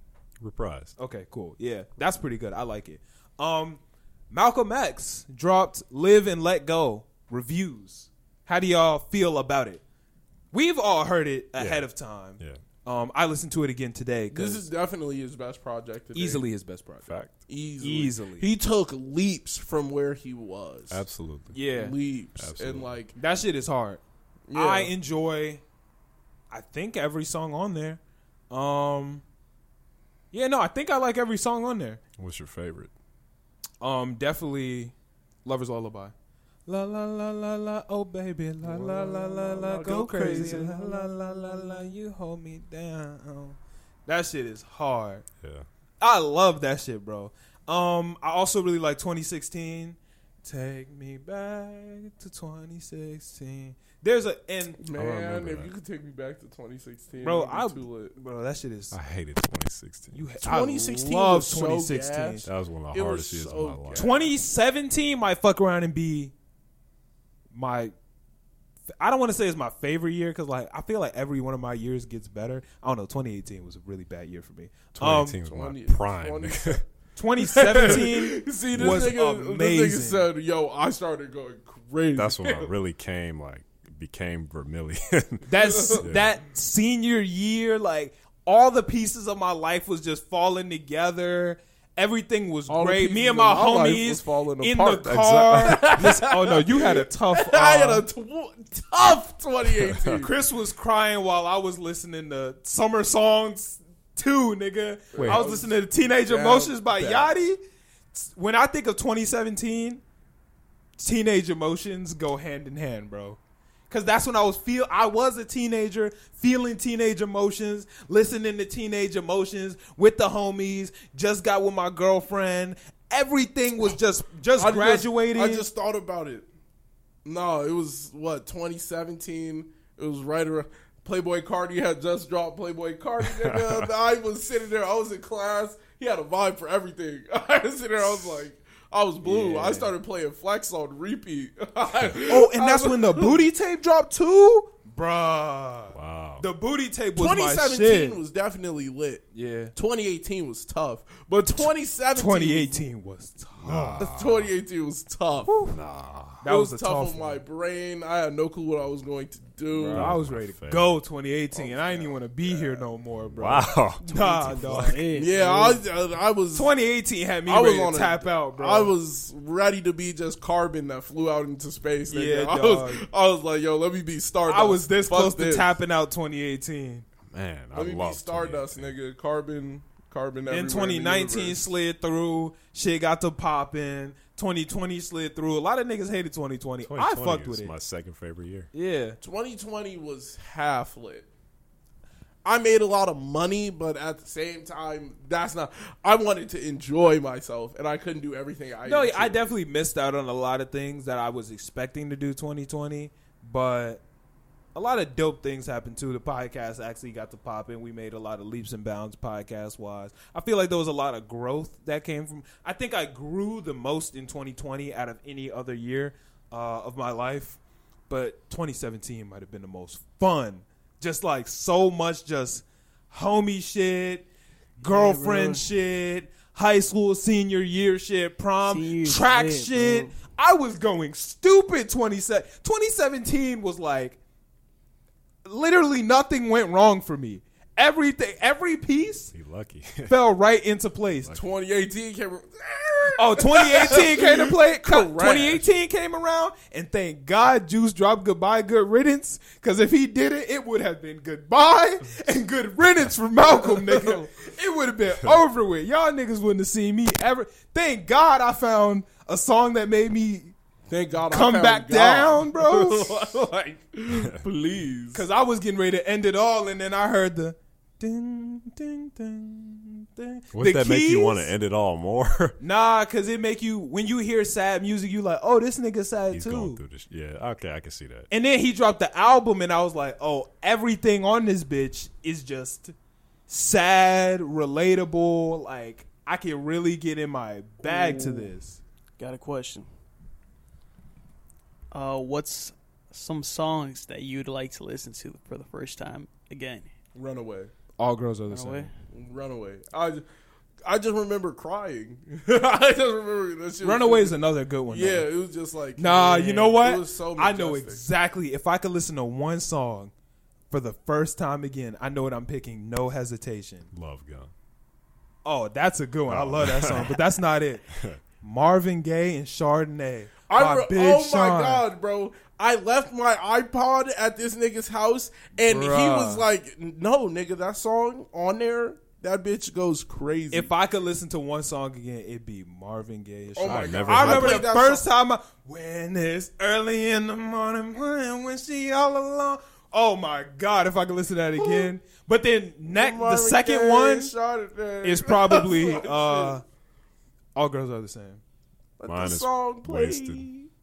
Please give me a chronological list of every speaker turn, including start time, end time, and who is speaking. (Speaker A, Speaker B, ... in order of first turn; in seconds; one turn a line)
Speaker A: 0.4-0.9
Speaker B: 1.0-3.8
Speaker B: 4.3-9.8
Speaker B: 10.5-14.7
Speaker A: 11.6-12.6
Speaker C: 14.3-16.4
Speaker B: 16.1-17.1
Speaker A: 17.1-17.3
Speaker C: 17.5-21.0
Speaker B: 17.8-18.5
Speaker A: 20.9-21.6
Speaker B: 21.5-22.0
Speaker C: 21.7-23.2
Speaker A: 22.4-22.9
Speaker B: 23.2-24.0
Speaker C: 24.5-24.9
Speaker B: 24.5-25.6
Speaker B: 26.5-28.0
Speaker B: 28.5-29.2
Speaker B: 30.3-32.0
Speaker A: 32.2-32.9
Speaker B: 33.8-34.9
Speaker B: 35.4-36.1
Speaker B: 36.6-45.2
Speaker C: 38.6-40.8
Speaker A: 45.4-45.6
Speaker B: 46.0-54.8
Speaker C: 54.8-58.1
Speaker A: 54.9-55.7
Speaker B: 57.2-58.9
Speaker A: 58.9-60.2
Speaker B: 60.1-62.5
Speaker C: 60.4-64.3
Speaker A: 62.4-64.1
Speaker B: 63.9-66.3
Speaker B: 67.5-67.9
Speaker B: 69.0-75.4
Speaker A: 75.0-76.8
Speaker C: 75.4-76.8
Speaker B: 77.2-80.3
Speaker C: 77.4-82.7
Speaker A: 78.7-79.1
Speaker A: 82.2-86.3
Speaker B: 85.5-98.0
Speaker C: 85.6-86.0
Speaker C: 92.7-100.3
Speaker A: 99.9-100.2
Speaker B: 100.2-107.6
Speaker C: 105.1-107.3
Speaker B: 108.1-110.0
Speaker B: 111.0-113.4
Speaker B: 113.9-125.7
Speaker C: 124.5-126.5
Speaker C: 127.2-143.5
Speaker A: 133.3-133.9
Speaker B: 139.2-139.9
Speaker B: 142.2-148.2
Speaker A: 145.9-146.4
Speaker C: 147.2-152.8
Speaker B: 149.3-149.7
Speaker B: 152.1-154.1
Speaker A: 153.6-154.5
Speaker C: 154.0-155.5
Speaker B: 155.4-155.7
Speaker A: 155.7-156.4
Speaker B: 156.4-157.4
Speaker C: 156.4-160.1
Speaker A: 159.8-161.0
Speaker B: 159.8-165.5
Speaker C: 161.5-162.8
Speaker A: 163.3-165.0
Speaker C: 164.1-164.5
Speaker D: 164.7-165.8
Speaker C: 165.1-166.7
Speaker B: 166.5-168.9
Speaker C: 167.4-175.7
Speaker B: 172.1-173.1
Speaker B: 174.5-177.0
Speaker A: 177.3-178.9
Speaker C: 177.7-181.7
Speaker B: 180.5-187.7
Speaker A: 186.8-188.7
Speaker B: 188.7-189.2
Speaker C: 189.2-191.3
Speaker C: 192.4-199.5
Speaker B: 198.8-204.0
Speaker B: 204.7-217.6
Speaker B: 218.1-224.3
Speaker B: 224.8-234.2
Speaker D: 224.8-225.7
Speaker D: 228.7-230.1
Speaker B: 235.4-239.3
Speaker A: 239.3-240.2
Speaker B: 240.1-241.3
Speaker A: 241.2-241.5
Speaker C: 241.3-245.7
Speaker B: 243.2-260.5
Speaker C: 253.4-254.3
Speaker C: 260.9-265.2
Speaker B: 261.3-263.1
Speaker A: 264.1-264.4
Speaker B: 265.1-271.5
Speaker A: 270.5-272.6
Speaker B: 272.6-276.8
Speaker A: 276.3-278.3
Speaker B: 278.3-282.9
Speaker B: 283.5-288.8
Speaker D: 287.8-288.5
Speaker D: 289.2-289.9
Speaker D: 291.9-296.9
Speaker C: 297.1-297.7
Speaker B: 298.0-298.9
Speaker D: 298.5-298.9
Speaker C: 299.1-300.2
Speaker C: 300.8-304.4
Speaker B: 303.8-305.3
Speaker C: 304.9-308.0
Speaker B: 306.0-310.1
Speaker B: 310.7-313.9
Speaker A: 313.9-314.5
Speaker B: 315.4-321.8
Speaker A: 316.3-317.2
Speaker C: 320.5-330.7
Speaker B: 325.7-326.4
Speaker B: 330.5-344.3
Speaker C: 333.5-335.1
Speaker A: 333.6-334.7
Speaker C: 341.6-341.9
Speaker C: 342.9-346.6
Speaker B: 345.0-346.6
Speaker B: 347.6-348.4
Speaker C: 349.0-350.7
Speaker A: 349.1-350.5